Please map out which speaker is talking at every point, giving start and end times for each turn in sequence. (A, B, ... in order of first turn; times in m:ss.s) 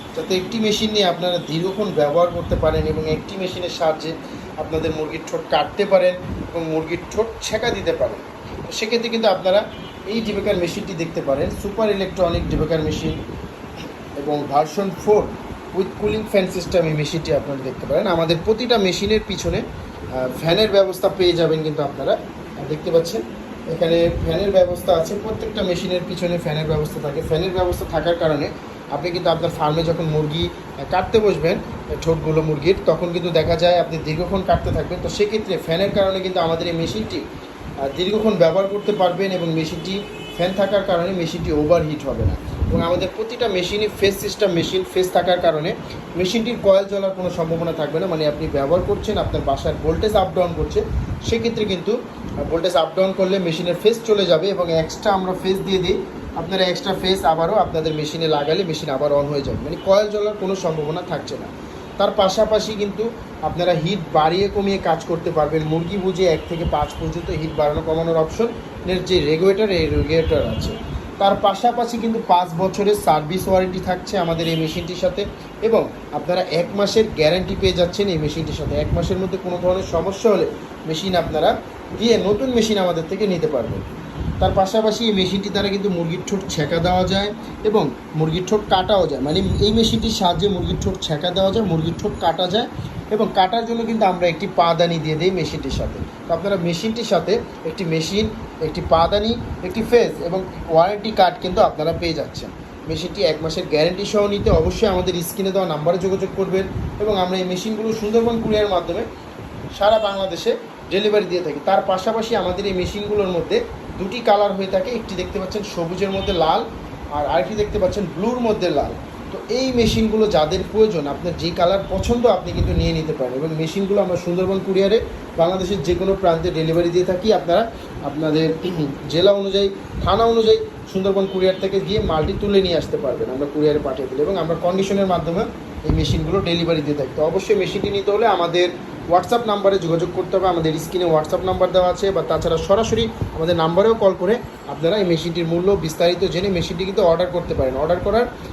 0:00.1-0:13.2 A
0:14.2-0:19.6 A
0:20.1-0:37.2 A
0:37.8-1:23.9 A
1:24.4-1:49.1 A
1:49.8-2:28.3 A